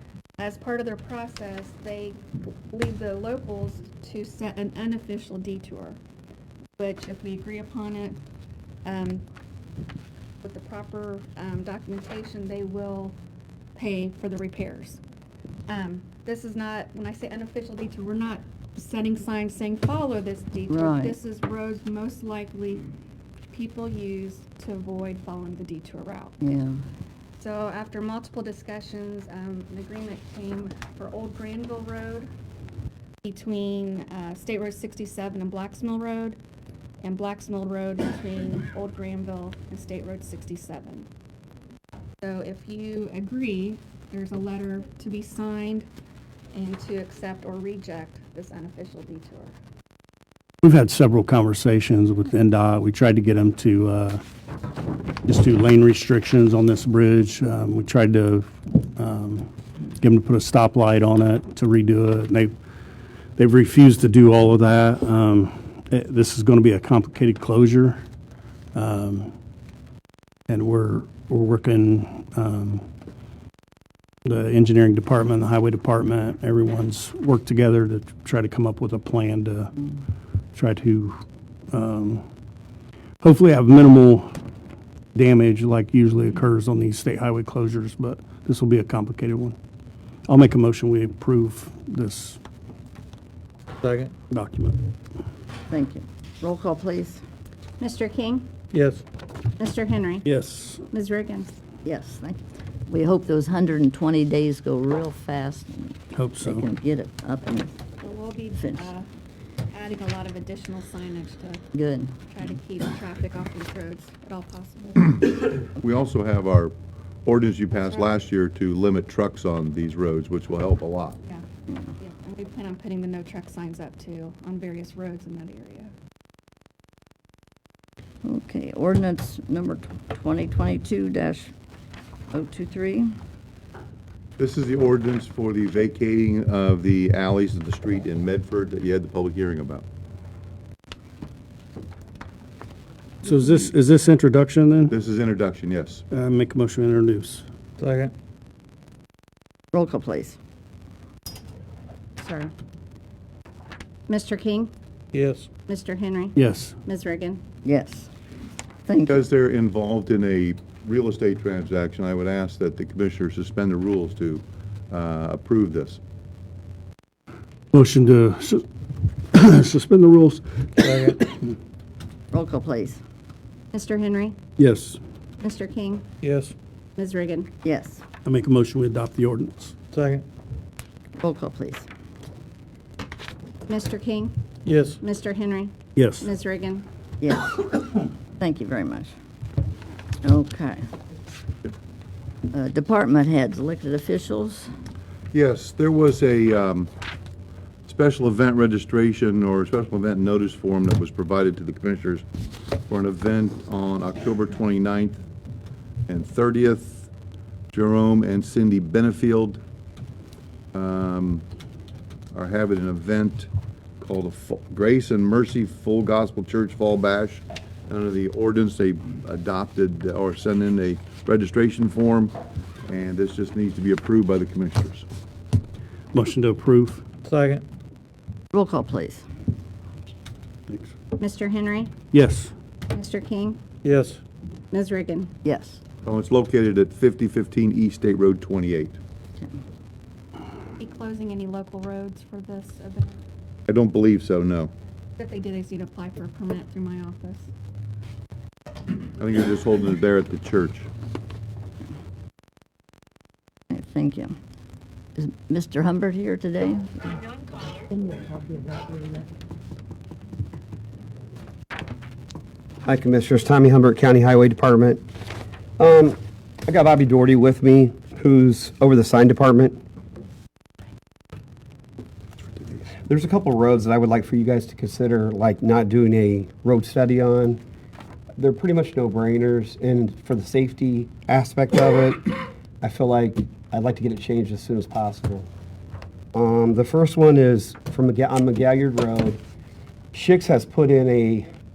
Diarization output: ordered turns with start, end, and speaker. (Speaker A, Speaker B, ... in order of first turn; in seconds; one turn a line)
Speaker A: 0.4-6.0
Speaker A: 6.8-8.2
Speaker A: 8.8-9.2
Speaker A: 10.4-13.2
Speaker A: 13.7-15.0
Speaker A: 15.7-22.9
Speaker B: 20.7-21.2
Speaker A: 23.5-26.4
Speaker B: 26.4-26.8
Speaker A: 27.4-32.3
Speaker A: 33.2-36.4
Speaker A: 37.0-41.1
Speaker A: 42.2-45.9
Speaker A: 46.5-49.5
Speaker C: 50.6-54.2
Speaker C: 55.2-59.5
Speaker C: 60.0-62.5
Speaker C: 63.4-68.0
Speaker C: 68.7-69.3
Speaker C: 70.5-72.8
Speaker C: 74.2-79.8
Speaker C: 80.5-81.2
Speaker C: 81.7-82.2
Speaker C: 83.2-84.3
Speaker C: 85.1-89.5
Speaker C: 90.3-92.4
Speaker D: 93.8-94.1
Speaker C: 94.3-94.8
Speaker B: 95.7-97.2
Speaker A: 97.8-98.5
Speaker D: 98.7-99.0
Speaker A: 99.6-100.2
Speaker C: 100.2-100.8
Speaker A: 100.9-101.5
Speaker B: 101.8-107.8
Speaker C: 106.1-106.7
Speaker A: 108.0-109.1
Speaker B: 108.5-108.9
Speaker A: 109.7-111.6
Speaker B: 111.7-112.1
Speaker A: 112.3-115.3
Speaker E: 115.8-116.7
Speaker E: 117.2-121.2
Speaker A: 122.0-125.9
Speaker B: 128.2-131.5
Speaker B: 132.3-133.1
Speaker E: 134.4-139.9
Speaker C: 143.2-145.0
Speaker E: 144.9-146.0
Speaker C: 146.1-147.4
Speaker D: 147.8-148.1
Speaker B: 149.7-150.4
Speaker F: 152.2-152.5
Speaker F: 154.1-154.7
Speaker A: 154.4-154.7
Speaker D: 155.1-155.5
Speaker F: 155.7-156.3
Speaker C: 156.4-156.8
Speaker F: 156.9-157.4
Speaker B: 157.7-158.1
Speaker B: 158.9-159.2
Speaker E: 159.1-166.0
Speaker C: 167.7-168.6
Speaker C: 169.3-171.4
Speaker D: 170.8-171.2
Speaker B: 172.3-173.0
Speaker F: 173.7-174.3
Speaker C: 174.6-175.0
Speaker F: 175.4-176.0
Speaker D: 176.2-176.5
Speaker F: 177.0-177.5
Speaker B: 177.6-178.0
Speaker C: 178.2-179.7
Speaker D: 179.9-180.2
Speaker B: 181.2-181.9
Speaker F: 183.7-184.3
Speaker D: 184.7-185.0
Speaker F: 185.0-186.8
Speaker C: 186.0-186.3
Speaker B: 187.2-189.1
Speaker B: 190.2-190.8
Speaker B: 192.5-194.7
Speaker E: 195.3-196.9
Speaker E: 197.9-202.2
Speaker E: 202.9-205.2
Speaker E: 206.1-207.1
Speaker E: 207.7-209.6
Speaker E: 210.7-211.4
Speaker E: 212.3-222.3
Speaker E: 222.9-225.1
Speaker C: 226.1-227.0
Speaker D: 227.2-227.6
Speaker B: 228.5-229.2
Speaker A: 231.2-231.9
Speaker F: 231.4-231.9
Speaker C: 232.1-232.5
Speaker A: 232.9-233.6
Speaker F: 233.1-233.5
Speaker D: 233.8-234.2
Speaker A: 234.7-235.3
Speaker F: 234.7-235.3
Speaker B: 235.4-235.8
Speaker E: 236.0-239.0
Speaker A: 240.8-243.2
Speaker E: 243.7-244.7
Speaker A: 245.2-247.5
Speaker E: 249.2-250.9
Speaker B: 253.7-254.4
Speaker B: 255.1-257.2
Speaker G: 262.8-265.1
Speaker G: 265.8-269.8
Speaker G: 272.9-277.6
Speaker G: 278.4-285.5
Speaker G: 286.3-289.4
Speaker G: 290.1-291.4